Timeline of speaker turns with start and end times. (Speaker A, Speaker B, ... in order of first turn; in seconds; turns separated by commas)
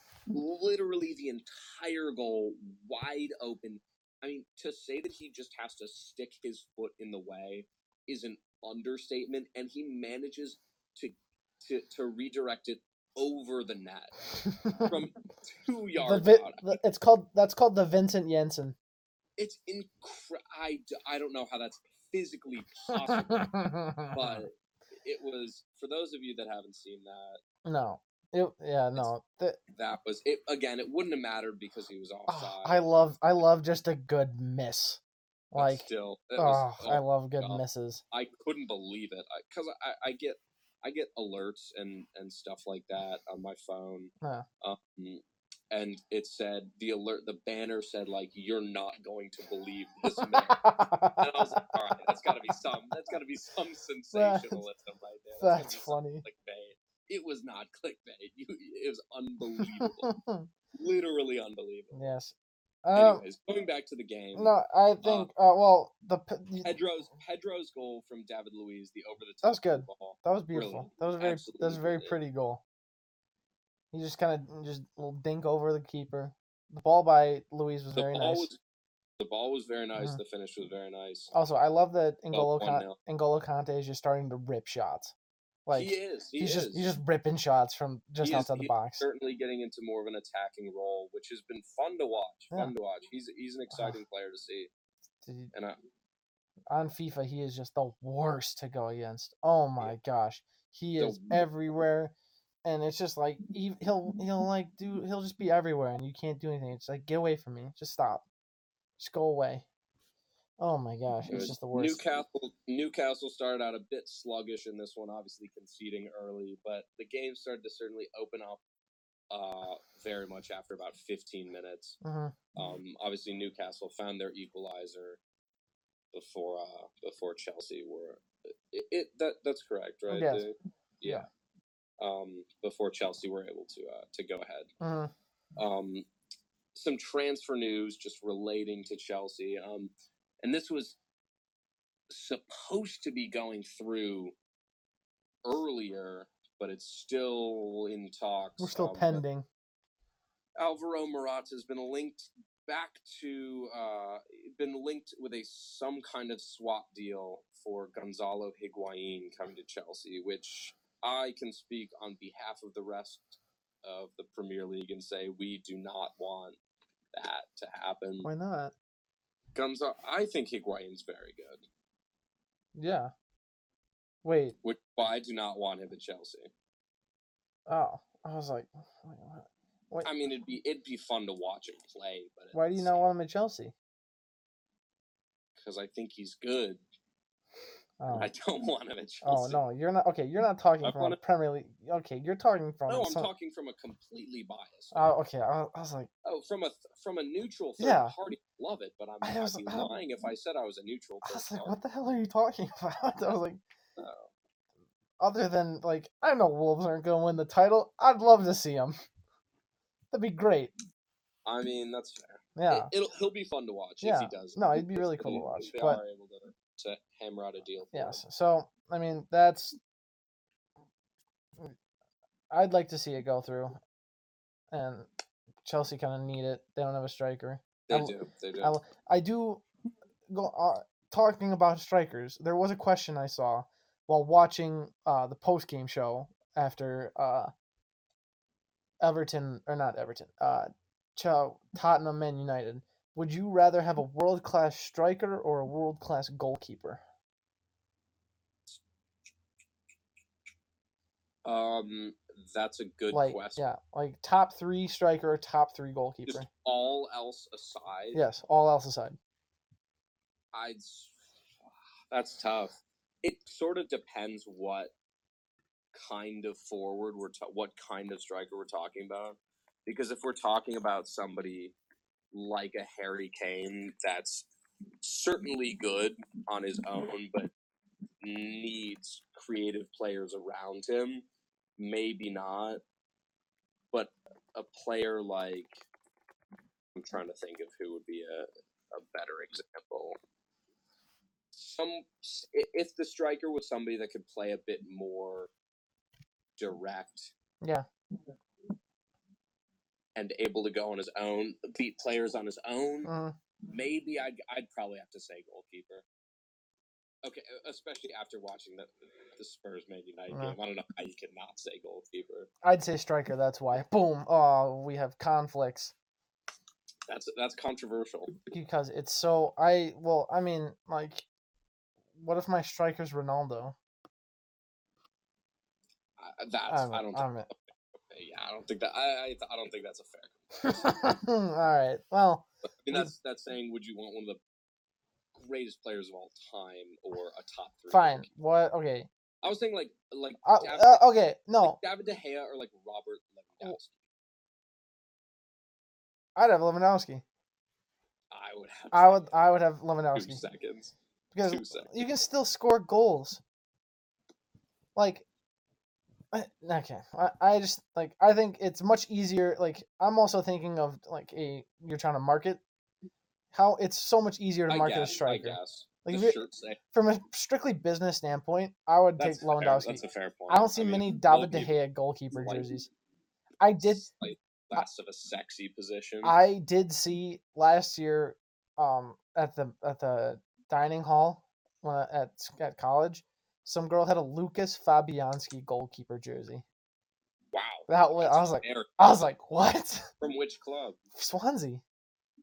Speaker A: 0.3-14.1, Speaker B: 14.4-14.9, Speaker A: 14.8-16.8, Speaker B: 16.0-18.8, Speaker A: 19.4-23.6, Speaker B: 23.0-24.4, Speaker A: 24.1-27.4, Speaker B: 27.6-29.6, Speaker A: 29.7-33.0, Speaker B: 32.3-35.0, Speaker B: 35.5-38.0, Speaker A: 35.6-50.6, Speaker B: 50.2-52.3, Speaker A: 51.2-60.1, Speaker B: 54.1-54.6, Speaker B: 55.4-56.2, Speaker B: 59.6-60.5, Speaker A: 60.8-62.1, Speaker B: 61.9-63.2, Speaker A: 62.9-65.3, Speaker B: 64.3-66.8, Speaker A: 66.6-72.2, Speaker B: 69.4-72.6, Speaker B: 73.9-78.5, Speaker A: 77.9-78.6, Speaker A: 79.2-81.3, Speaker B: 81.3-85.1, Speaker A: 82.3-83.0, Speaker B: 85.7-89.0, Speaker A: 85.7-86.9, Speaker A: 88.2-94.7, Speaker B: 93.7-94.0, Speaker B: 95.2-95.5, Speaker A: 95.5-95.8, Speaker B: 96.7-102.1, Speaker A: 101.0-101.4, Speaker B: 102.7-108.2, Speaker B: 109.0-109.7, Speaker B: 110.6-112.0, Speaker A: 111.3-118.6, Speaker A: 119.3-122.0, Speaker B: 122.0-122.4, Speaker A: 122.5-125.2, Speaker A: 126.1-131.3, Speaker B: 130.1-130.5, Speaker A: 132.0-134.7, Speaker B: 134.8-135.1, Speaker A: 135.6-136.1, Speaker A: 136.7-139.9, Speaker A: 140.4-141.0, Speaker A: 142.1-144.3, Speaker A: 145.4-149.2, Speaker B: 148.6-149.5, Speaker A: 150.6-166.6, Speaker A: 167.1-168.3, Speaker B: 168.2-168.7, Speaker A: 169.5-171.7, Speaker B: 172.8-173.1, Speaker B: 174.2-174.6, Speaker A: 174.6-176.5, Speaker B: 177.7-180.1, Speaker A: 180.0-183.1, Speaker B: 182.5-183.7, Speaker A: 185.6-186.8, Speaker B: 188.0-188.3, Speaker A: 188.1-189.6, Speaker B: 189.2-193.3, Speaker A: 190.8-191.2, Speaker A: 192.9-195.1, Speaker B: 194.9-196.1, Speaker A: 196.2-201.8, Speaker B: 197.8-198.2, Speaker B: 199.2-199.9, Speaker B: 201.2-203.6, Speaker A: 204.0-204.3, Speaker B: 205.2-209.0, Speaker B: 210.1-210.7, Speaker A: 211.4-218.2, Speaker B: 212.6-212.9, Speaker B: 214.0-216.0, Speaker B: 217.9-219.8, Speaker B: 222.5-223.8, Speaker B: 224.7-225.1, Speaker B: 225.7-229.6, Speaker A: 227.9-228.7, Speaker B: 230.3-237.5, Speaker B: 239.0-247.0, Speaker A: 251.4-253.6, Speaker B: 253.1-256.5, Speaker A: 256.3-258.2, Speaker B: 258.1-259.2, Speaker A: 260.5-261.2, Speaker A: 262.1-264.9, Speaker A: 265.9-271.8, Speaker A: 272.3-274.5, Speaker A: 275.0-277.5, Speaker A: 278.2-281.2, Speaker A: 281.8-282.8, Speaker A: 283.9-285.9, Speaker A: 286.9-290.2, Speaker A: 291.5-295.5, Speaker A: 296.6-297.3, Speaker A: 300.2-303.1, Speaker B: 303.1-303.4, Speaker A: 303.7-306.1, Speaker A: 307.2-312.5, Speaker B: 310.3-310.6, Speaker B: 312.6-315.9, Speaker A: 317.1-318.4, Speaker B: 318.5-321.3, Speaker B: 322.2-323.8, Speaker A: 326.2-327.5, Speaker B: 326.7-327.5, Speaker A: 328.1-330.9, Speaker B: 330.6-333.1, Speaker A: 332.8-334.4, Speaker A: 335.4-338.3, Speaker B: 337.9-339.1, Speaker A: 339.4-341.1, Speaker B: 340.4-341.8, Speaker A: 341.6-344.0, Speaker B: 346.4-347.2, Speaker A: 348.3-349.3, Speaker B: 348.9-350.4, Speaker A: 350.1-351.9, Speaker B: 351.3-353.4, Speaker B: 355.0-355.2, Speaker B: 356.3-362.6, Speaker B: 363.5-366.4, Speaker A: 364.7-366.8, Speaker B: 366.9-372.9, Speaker A: 369.2-371.8, Speaker A: 372.3-372.7, Speaker B: 373.6-374.1, Speaker A: 373.8-376.4, Speaker B: 376.2-386.6, Speaker A: 387.5-388.9, Speaker B: 387.9-390.1, Speaker A: 390.2-391.0, Speaker B: 391.2-391.8